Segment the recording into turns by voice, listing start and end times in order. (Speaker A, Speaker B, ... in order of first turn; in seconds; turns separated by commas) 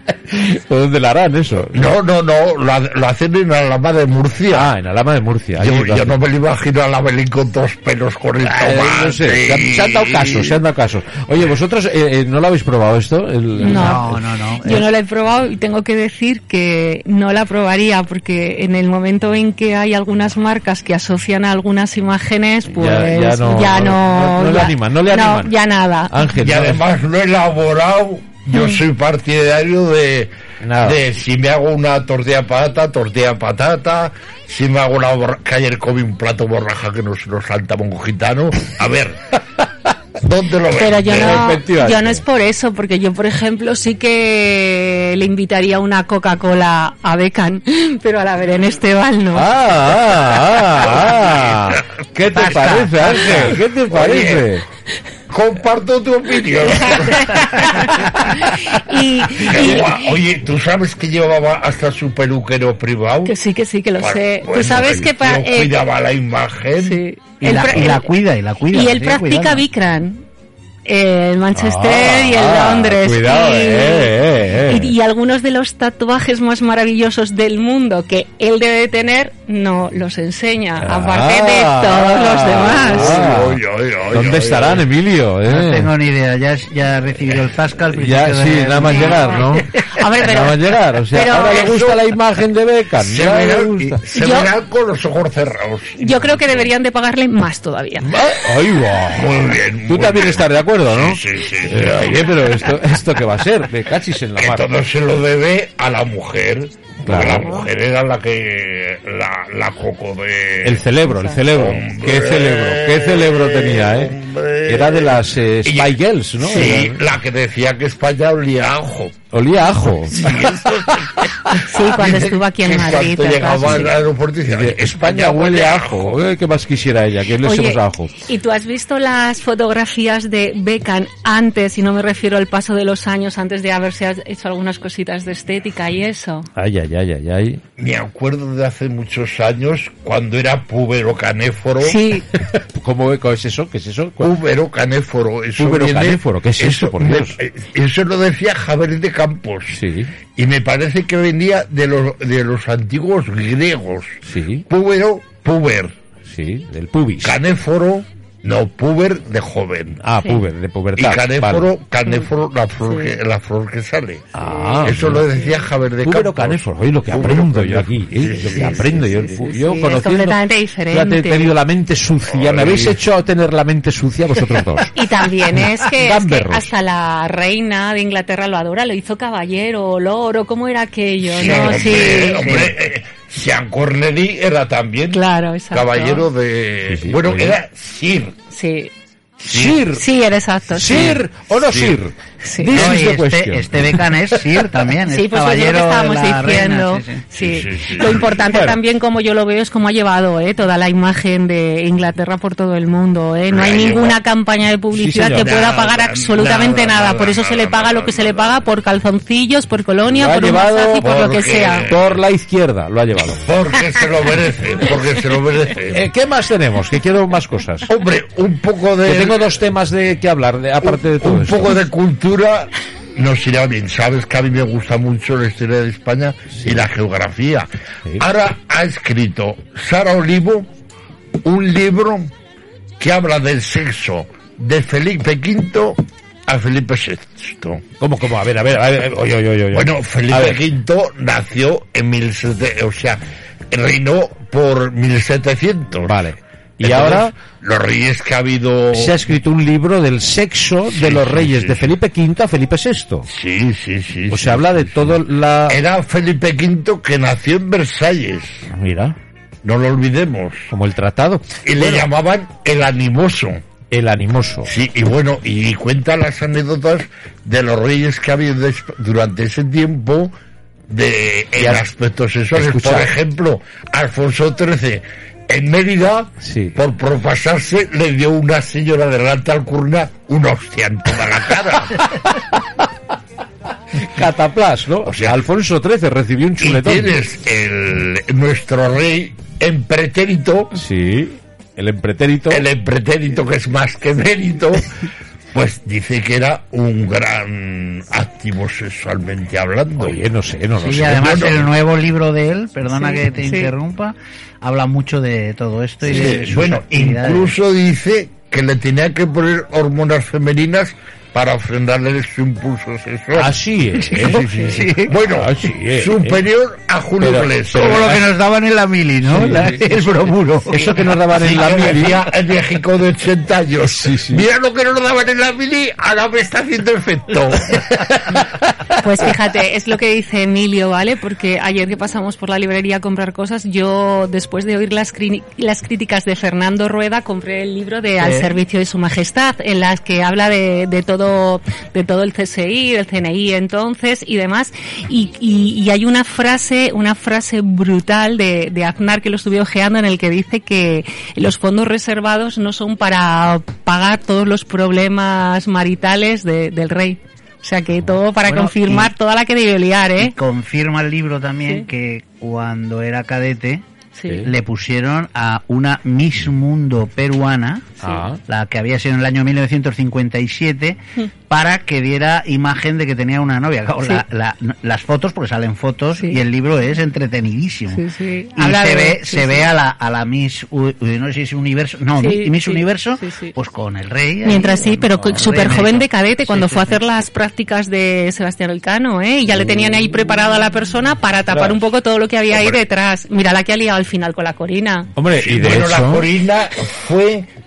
Speaker A: 0.3-1.9, Speaker B: 1.7-4.7, Speaker A: 4.5-6.2, Speaker B: 5.6-10.6, Speaker A: 8.5-14.2, Speaker C: 13.6-14.1, Speaker D: 13.6-14.8, Speaker C: 14.7-26.3, Speaker A: 22.7-25.6, Speaker A: 26.1-26.8, Speaker B: 26.4-39.3, Speaker C: 28.5-28.8, Speaker A: 30.6-31.0, Speaker B: 40.2-41.6, Speaker C: 40.7-49.5, Speaker A: 41.1-42.2, Speaker A: 49.3-54.6, Speaker D: 52.3-53.6, Speaker B: 53.9-54.5, Speaker B: 55.3-57.7, Speaker C: 56.9-60.1, Speaker B: 59.4-63.4, Speaker C: 63.2-65.7, Speaker B: 64.0-67.0, Speaker C: 66.8-68.1, Speaker D: 67.4-69.6, Speaker C: 68.7-70.2, Speaker C: 70.9-83.2, Speaker A: 71.5-74.9, Speaker A: 80.8-85.9, Speaker B: 82.4-84.9, Speaker D: 85.5-89.4, Speaker A: 87.9-89.7, Speaker C: 89.0-89.2, Speaker C: 90.0-91.8, Speaker A: 90.2-94.0, Speaker B: 91.3-92.1, Speaker B: 93.0-96.7, Speaker C: 94.1-94.5, Speaker C: 96.0-98.1, Speaker A: 98.0-104.7, Speaker B: 99.1-102.3, Speaker B: 104.4-110.9, Speaker A: 107.0-107.5, Speaker A: 110.6-117.0, Speaker C: 111.1-111.4, Speaker B: 111.5-119.3, Speaker A: 119.3-121.7, Speaker B: 120.1-126.2, Speaker C: 121.7-124.0, Speaker A: 123.6-123.9, Speaker A: 124.5-128.2, Speaker C: 127.4-136.5, Speaker A: 136.6-137.6, Speaker B: 137.8-142.0, Speaker C: 141.8-142.3, Speaker A: 142.3-144.3, Speaker B: 144.2-149.8, Speaker A: 145.6-147.4, Speaker A: 149.7-150.1, Speaker B: 150.3-156.0, Speaker A: 154.3-154.7, Speaker A: 156.2-157.4, Speaker B: 157.2-160.0, Speaker A: 160.0-161.7, Speaker B: 161.0-169.2, Speaker C: 162.8-163.1, Speaker A: 164.3-165.3, Speaker C: 164.4-164.8, Speaker A: 166.0-175.0, Speaker C: 169.4-171.6, Speaker B: 172.3-173.0, Speaker C: 174.9-182.6, Speaker A: 175.9-176.7, Speaker B: 181.2-188.4, Speaker D: 181.7-182.7, Speaker C: 185.1-186.3, Speaker A: 186.9-187.6, Speaker C: 188.5-188.9, Speaker A: 189.4-190.0, Speaker B: 189.5-189.9, Speaker C: 189.9-191.2, Speaker A: 190.7-194.2, Speaker B: 190.8-192.0, Speaker C: 192.4-192.8, Speaker D: 192.7-197.3, Speaker C: 195.1-211.9, Speaker B: 197.4-198.4, Speaker A: 198.5-198.8, Speaker B: 203.5-204.2, Speaker A: 204.9-205.6, Speaker B: 205.4-208.6, Speaker A: 210.1-211.1, Speaker B: 211.0-212.2, Speaker A: 211.9-213.5, Speaker B: 213.4-216.1, Speaker A: 215.9-217.9, Speaker B: 217.9-219.4, Speaker A: 219.1-221.8, Speaker B: 220.8-230.7, Speaker A: 226.5-226.8, Speaker B: 231.4-232.3, Speaker B: 233.0-237.8, Speaker A: 238.0-240.6, Speaker B: 239.7-246.2, Speaker A: 246.0-247.3, Speaker B: 246.8-249.2, Speaker A: 248.9-253.3, Speaker B: 250.9-252.0, Speaker B: 253.3-258.7, Speaker A: 254.3-255.8, Speaker A: 258.7-259.2, Speaker B: 259.6-260.7, Speaker A: 260.7-262.1, Speaker B: 261.6-263.6, Speaker A: 263.9-264.7, Speaker B: 264.7-270.3, Speaker B: 270.9-282.0, Speaker A: 271.6-271.8, Speaker A: 272.5-273.1, Speaker A: 276.4-276.8, Speaker A: 282.0-282.8, Speaker A: 284.0-287.1, Speaker B: 285.0-285.4, Speaker B: 286.6-290.8, Speaker A: 290.8-292.6, Speaker B: 292.5-294.9, Speaker B: 295.5-300.2, Speaker A: 300.0-301.7, Speaker D: 300.8-307.5, Speaker B: 301.1-301.6, Speaker C: 303.1-303.7, Speaker A: 306.1-306.6, Speaker B: 306.1-318.2, Speaker A: 313.4-314.6, Speaker D: 314.2-315.1, Speaker A: 315.2-316.4, Speaker A: 317.2-318.3, Speaker D: 317.7-321.1, Speaker A: 319.2-319.9, Speaker A: 320.7-322.2, Speaker B: 321.3-328.1, Speaker A: 323.9-324.4, Speaker C: 329.0-360.3, Speaker D: 338.2-338.5, Speaker D: 358.4-359.1, Speaker D: 360.2-363.8, Speaker C: 364.2-364.5, Speaker D: 364.4-387.0, Speaker A: 368.0-368.4, Speaker C: 376.2-376.4, Speaker C: 377.9-379.7, Speaker C: 382.2-383.5, Speaker C: 384.4-395.1, Speaker A: 391.5-391.8, Speaker B: 392.5-392.8, Speaker A: 395.2-396.3, Speaker B: 395.3-397.5